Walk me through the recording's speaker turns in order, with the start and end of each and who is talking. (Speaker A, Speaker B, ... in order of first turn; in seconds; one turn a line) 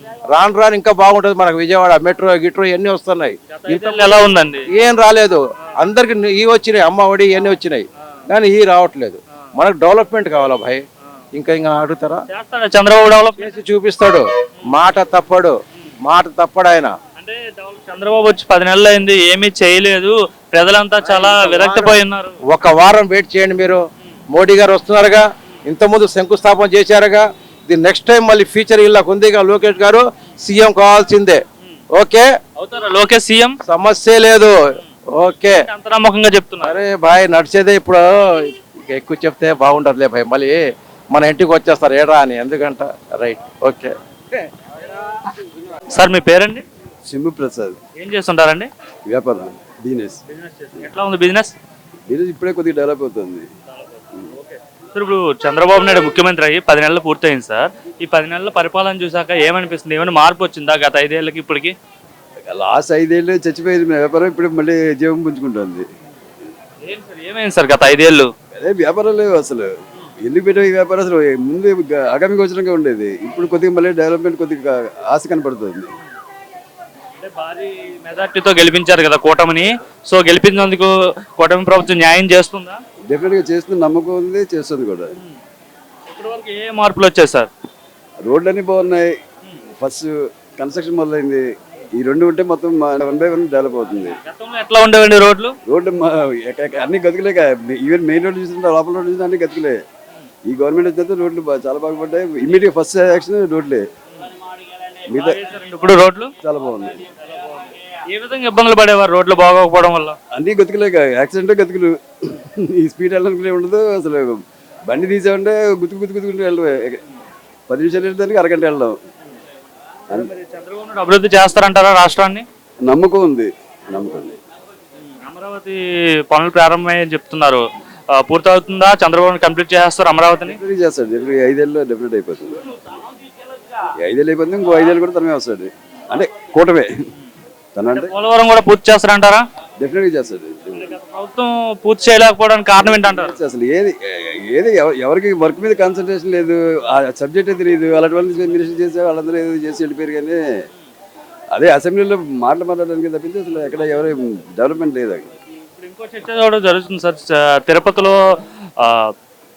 Speaker A: 0.3-10.8
Speaker B: 3.5-4.7
Speaker A: 11.3-12.2
Speaker B: 12.3-13.5
Speaker A: 13.4-16.9
Speaker B: 17.2-22.4
Speaker A: 21.0-22.0
Speaker A: 22.5-31.4
Speaker A: 31.9-32.3
Speaker B: 32.6-33.6
Speaker A: 33.6-34.5
Speaker A: 35.2-35.7
Speaker B: 35.4-36.8
Speaker A: 36.6-40.6
Speaker A: 41.1-44.0
Speaker B: 45.9-46.6
Speaker C: 47.0-47.8
Speaker B: 48.0-48.7
Speaker C: 49.1-50.2
Speaker B: 50.3-51.6
Speaker C: 52.1-53.5
Speaker B: 53.7-61.7
Speaker C: 62.5-65.9
Speaker B: 66.8-68.3
Speaker C: 68.5-69.7
Speaker C: 70.2-75.9
Speaker B: 77.2-82.8
Speaker C: 83.1-85.1
Speaker B: 86.1-87.5
Speaker C: 88.2-89.1
Speaker C: 89.8-91.4
Speaker C: 92.0-94.2
Speaker B: 94.2-95.6
Speaker C: 95.7-99.8
Speaker C: 100.5-103.9
Speaker C: 105.1-105.4
Speaker B: 105.1-106.3
Speaker C: 106.4-107.1
Speaker B: 107.2-110.2
Speaker C: 110.3-117.0
Speaker C: 117.7-119.0
Speaker B: 120.1-122.5
Speaker C: 122.8-124.4
Speaker B: 125.1-125.8
Speaker B: 126.3-127.6
Speaker B: 128.2-130.6
Speaker C: 130.5-132.7
Speaker C: 134.0-136.9
Speaker C: 137.8-138.1
Speaker B: 137.9-139.4
Speaker C: 139.8-141.0
Speaker B: 140.7-143.4
Speaker C: 142.8-150.4
Speaker C: 151.5-155.3
Speaker B: 155.8-158.2
Speaker B: 158.8-159.1